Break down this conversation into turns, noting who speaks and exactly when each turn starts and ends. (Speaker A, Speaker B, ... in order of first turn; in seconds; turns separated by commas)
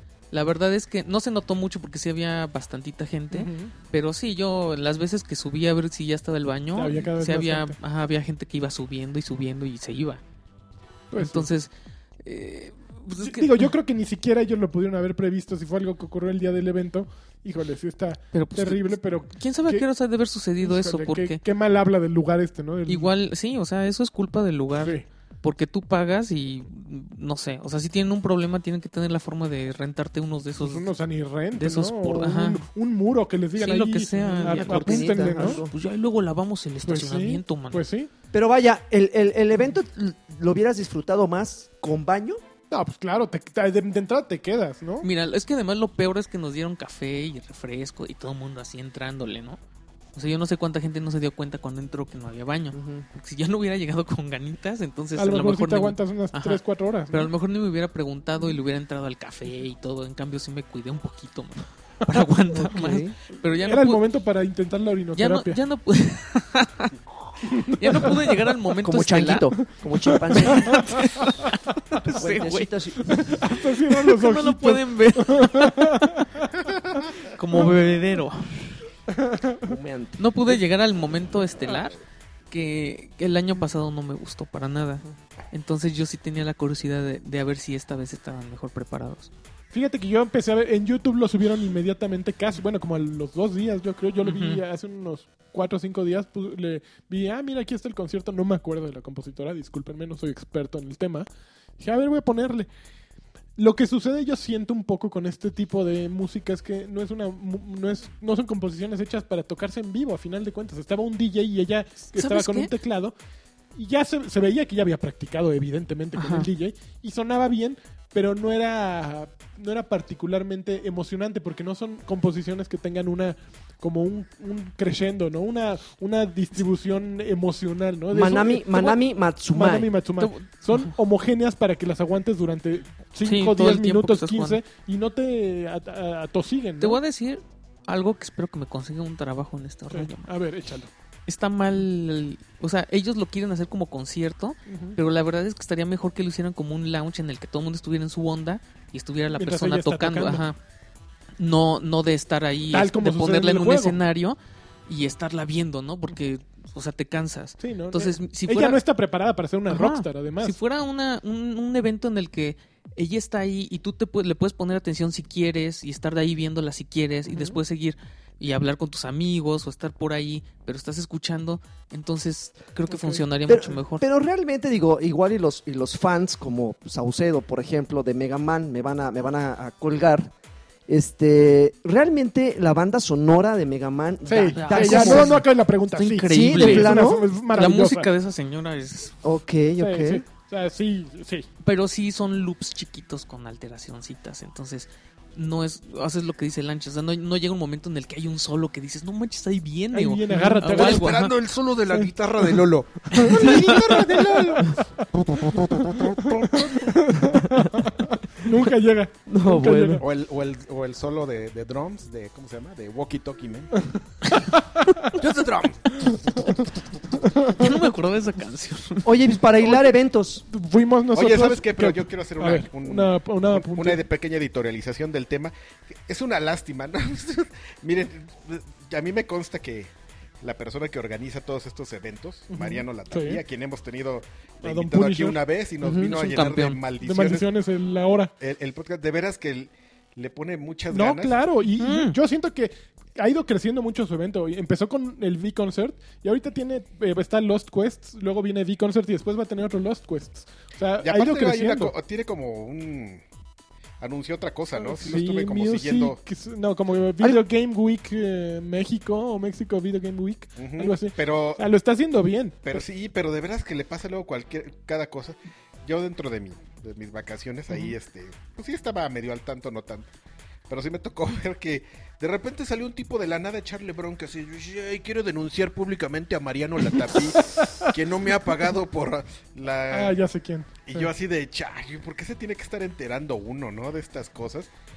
Speaker A: 0.3-10.2, Speaker B: 3.3-3.7, Speaker B: 6.7-7.7, Speaker B: 11.1-11.5, Speaker A: 11.1-11.7, Speaker A: 12.2-13.7, Speaker B: 13.2-19.8, Speaker A: 18.3-21.4, Speaker B: 20.6-23.1, Speaker A: 22.9-30.9, Speaker B: 24.8-25.1, Speaker B: 30.6-35.6, Speaker A: 31.5-32.6, Speaker A: 33.6-37.8, Speaker C: 34.2-35.7, Speaker B: 36.8-38.1, Speaker C: 38.3-42.4, Speaker B: 42.7-45.1, Speaker A: 45.0-49.6, Speaker A: 50.1-64.0, Speaker C: 52.7-53.1, Speaker B: 55.1-57.3, Speaker C: 62.6-63.1, Speaker B: 63.6-65.6, Speaker A: 65.2-67.0, Speaker B: 67.5-68.3, Speaker A: 67.6-69.5, Speaker C: 68.8-71.1, Speaker A: 70.3-72.7, Speaker B: 70.5-71.1, Speaker C: 72.0-73.3, Speaker B: 73.1-77.7, Speaker A: 73.4-76.0, Speaker A: 77.3-78.8, Speaker B: 79.1-79.7, Speaker C: 79.6-80.2, Speaker A: 80.2-82.0, Speaker A: 82.5-89.3, Speaker B: 89.7-101.3, Speaker A: 94.2-94.6, Speaker B: 101.8-102.7, Speaker B: 103.6-113.1, Speaker A: 112.1-112.7, Speaker B: 113.8-129.0, Speaker A: 116.1-116.5, Speaker C: 128.1-129.9, Speaker B: 129.5-137.0, Speaker A: 130.2-130.9, Speaker A: 133.2-134.6, Speaker A: 136.8-140.3, Speaker B: 139.9-140.9, Speaker A: 141.3-150.6, Speaker B: 144.7-145.0, Speaker B: 149.3-150.4, Speaker A: 151.4-158.8, Speaker B: 152.7-154.0, Speaker B: 157.6-160.6, Speaker A: 159.7-174.0, Speaker B: 167.3-167.6, Speaker B: 172.9-173.2, Speaker C: 173.5-180.3, Speaker C: 180.9-185.4, Speaker B: 184.3-188.1, Speaker A: 184.5-189.1, Speaker C: 186.3-187.3, Speaker C: 189.2-190.2, Speaker B: 189.8-191.5, Speaker A: 191.6-201.3, Speaker B: 199.9-201.2, Speaker D: 200.6-204.7, Speaker B: 203.1-204.8, Speaker A: 203.3-203.5, Speaker B: 205.6-210.0, Speaker D: 206.2-206.5, Speaker C: 207.3-207.8, Speaker C: 208.4-208.7, Speaker C: 209.3-210.0, Speaker D: 210.0-213.7, Speaker B: 214.6-215.0, Speaker D: 215.1-215.9, Speaker B: 217.4-217.8, Speaker A: 217.4-219.1, Speaker C: 219.0-220.4, Speaker B: 219.6-219.9, Speaker B: 220.5-224.0, Speaker D: 221.1-237.5, Speaker B: 232.5-233.4, Speaker B: 234.6-235.4, Speaker A: 235.8-236.8, Speaker B: 237.0-238.3, Speaker D: 238.4-241.4, Speaker B: 240.9-251.9, Speaker A: 241.8-242.2, Speaker D: 251.0-253.2, Speaker D: 254.0-256.2, Speaker B: 254.8-262.8, Speaker D: 260.6-261.6, Speaker D: 262.6-270.1, Speaker D: 270.7-280.1, Speaker B: 277.6-277.9, Speaker B: 279.9-281.1, Speaker D: 280.9-284.7